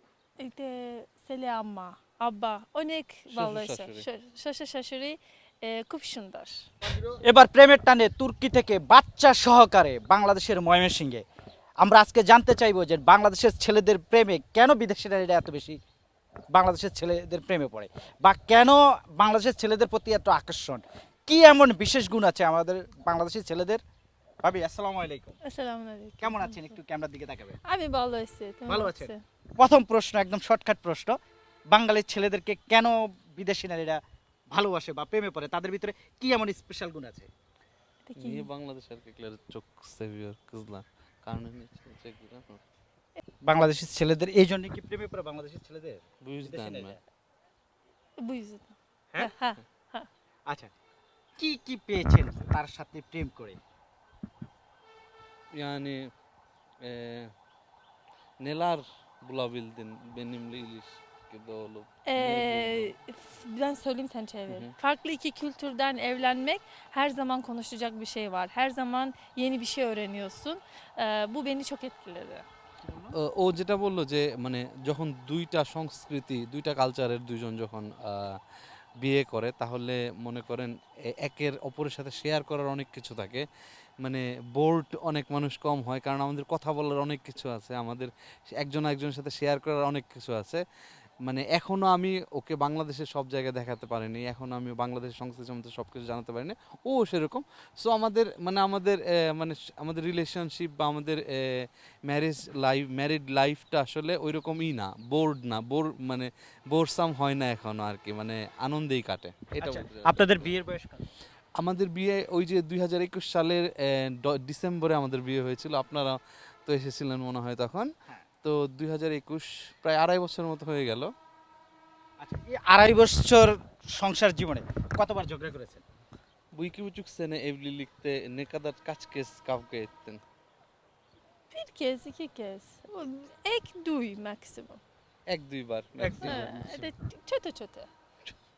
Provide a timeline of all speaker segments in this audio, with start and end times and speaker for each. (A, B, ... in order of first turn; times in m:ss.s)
0:00.4-0:06.6 A
0:03.3-0:04.0 B
0:06.9-0:11.2 C
0:11.8-0:15.8 C
0:16.5-0:23.8 C
0:24.4-0:25.4 C
0:25.4-0:26.7 A
0:26.2-0:27.6 C
0:27.6-0:29.2 A
0:28.7-0:31.2 C
0:31.7-0:37.3 C
0:38.0-0:38.5 A
0:38.2-0:42.6 B
0:43.4-0:47.0 C
0:46.2-0:47.0 B
0:48.2-0:50.1 A
0:51.4-0:53.6 C
0:55.5-0:56.1 B
0:56.8-0:57.3 B
0:58.4-1:02.9 B
1:02.1-1:12.4 A
1:12.8-1:13.2 C
1:13.2-1:18.4 B
1:19.0-1:23.4 B
1:24.0-1:30.6 B
1:31.2-1:50.5 B
1:49.6-1:51.1 C
1:51.6-1:57.9 B
1:58.4-2:01.1 B
2:02.2-2:05.8 C
2:06.6-2:10.2 B
2:11.5-2:14.8 A
2:15.3-2:16.9 B
2:16.0-2:16.5 C
2:16.2-2:17.9 A